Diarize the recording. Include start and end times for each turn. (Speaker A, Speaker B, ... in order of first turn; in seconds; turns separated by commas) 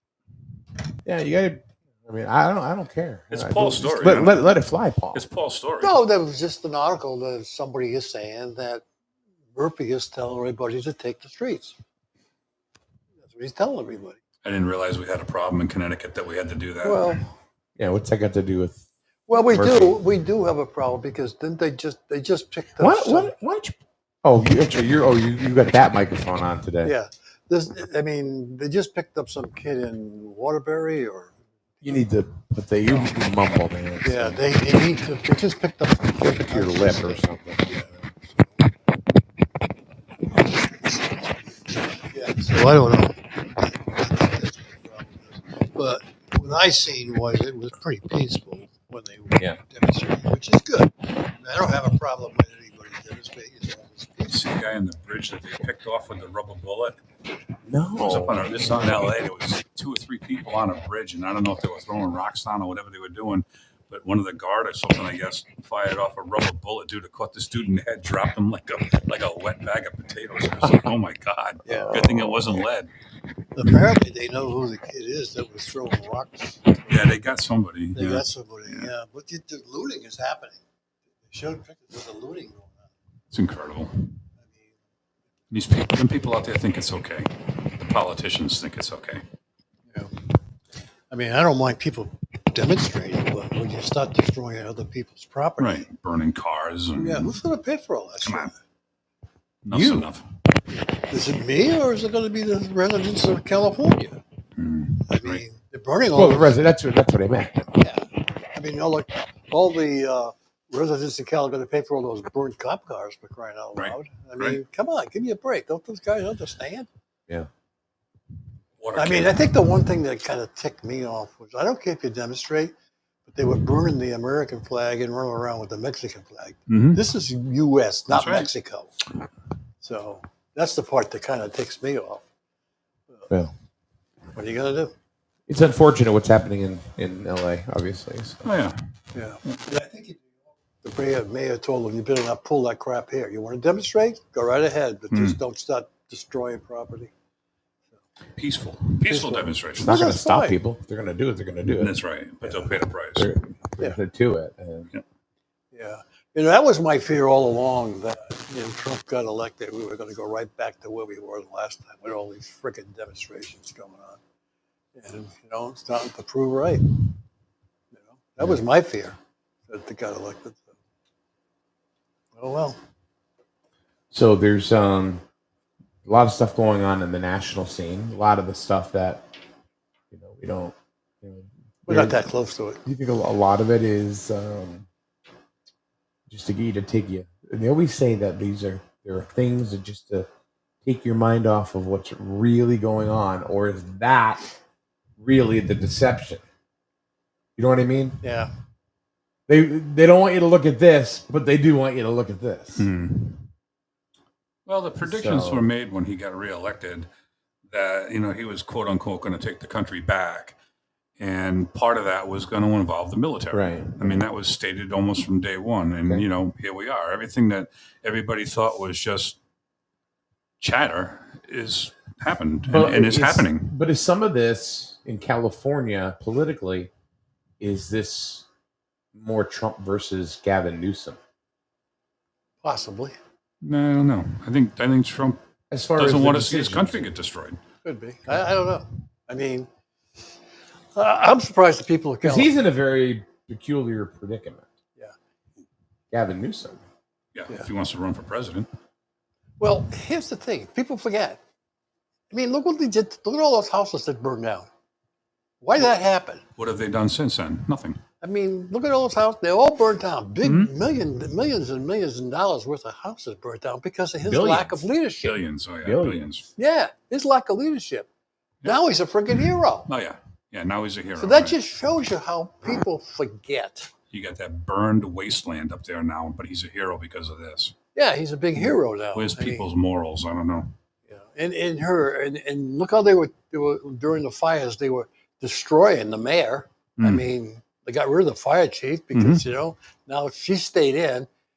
Speaker A: 1.0-5.2, Speaker B: 3.3-4.5, Speaker B: 5.1-6.0, Speaker C: 5.8-8.8, Speaker C: 9.5-11.8, Speaker C: 13.2-14.2, Speaker B: 14.4-17.2, Speaker C: 16.8-17.3, Speaker A: 17.8-20.0, Speaker C: 19.3-23.3, Speaker A: 22.8-26.9, Speaker C: 26.8-31.9, Speaker A: 31.8-34.4, Speaker C: 34.0-38.8, Speaker A: 36.2-37.8, Speaker C: 40.3-54.5, Speaker B: 54.3-57.0, Speaker A: 57.6-59.1, Speaker B: 58.0-72.9, Speaker C: 71.6-72.5, Speaker C: 73.5-77.1, Speaker B: 76.8-78.9, Speaker C: 77.9-80.6, Speaker C: 81.3-82.9, Speaker B: 83.3-84.1, Speaker C: 84.4-84.7, Speaker B: 85.5-89.2, Speaker C: 89.9-90.2, Speaker C: 91.1-95.9, Speaker B: 95.6-97.4, Speaker C: 97.0-98.6, Speaker B: 98.2-98.5, Speaker B: 99.6-100.2, Speaker A: 99.7-100.1, Speaker C: 100.9-104.1, Speaker B: 104.6-105.4, Speaker C: 105.0-106.6, Speaker A: 106.1-107.7, Speaker C: 107.7-116.9, Speaker B: 113.8-114.6, Speaker B: 118.8-119.5, Speaker C: 119.0-122.7, Speaker C: 123.3-129.0, Speaker B: 126.7-127.0, Speaker B: 128.1-128.5, Speaker C: 129.8-132.2, Speaker C: 134.3-134.9, Speaker A: 135.5-138.5, Speaker B: 138.4-138.8, Speaker C: 139.1-147.1, Speaker B: 145.1-145.4, Speaker B: 148.4-150.0, Speaker C: 149.0-150.6, Speaker A: 149.8-154.9, Speaker B: 151.8-153.3, Speaker C: 155.7-164.2, Speaker C: 164.9-167.0, Speaker C: 167.9-169.2, Speaker C: 169.7-170.8, Speaker C: 172.3-172.8, Speaker A: 174.1-175.2, Speaker A: 176.0-179.2, Speaker A: 180.1-182.2, Speaker C: 181.9-182.8, Speaker A: 182.8-184.9, Speaker A: 186.3-190.3, Speaker A: 190.8-194.5, Speaker A: 195.2-196.4, Speaker A: 197.6-198.2, Speaker C: 198.2-198.5, Speaker A: 199.5-202.9, Speaker B: 202.8-203.5, Speaker B: 204.7-207.1, Speaker A: 205.0-205.7, Speaker B: 207.7-210.6, Speaker B: 211.2-219.4, Speaker A: 213.5-214.3, Speaker B: 220.6-223.7, Speaker A: 222.7-226.9, Speaker A: 227.6-228.4, Speaker A: 229.1-231.2, Speaker C: 232.6-233.1, Speaker B: 233.6-235.4, Speaker A: 235.7-237.1, Speaker B: 235.9-237.6, Speaker C: 237.8-239.7, Speaker C: 240.9-242.6, Speaker A: 242.2-244.7, Speaker A: 246.1-246.8, Speaker B: 247.3-248.7, Speaker C: 249.6-251.4, Speaker C: 252.3-254.7, Speaker C: 255.6-256.4, Speaker B: 256.6-258.0, Speaker C: 258.2-265.4, Speaker B: 260.4-260.7, Speaker A: 264.2-264.8, Speaker B: 265.2-266.5, Speaker A: 265.8-266.2, Speaker C: 266.6-268.1, Speaker C: 268.6-269.9, Speaker B: 269.3-271.6, Speaker C: 271.2-273.9, Speaker B: 274.1-277.7, Speaker C: 277.9-279.7, Speaker B: 279.1-280.7, Speaker C: 281.1-291.3, Speaker B: 287.0-287.2, Speaker B: 289.1-289.4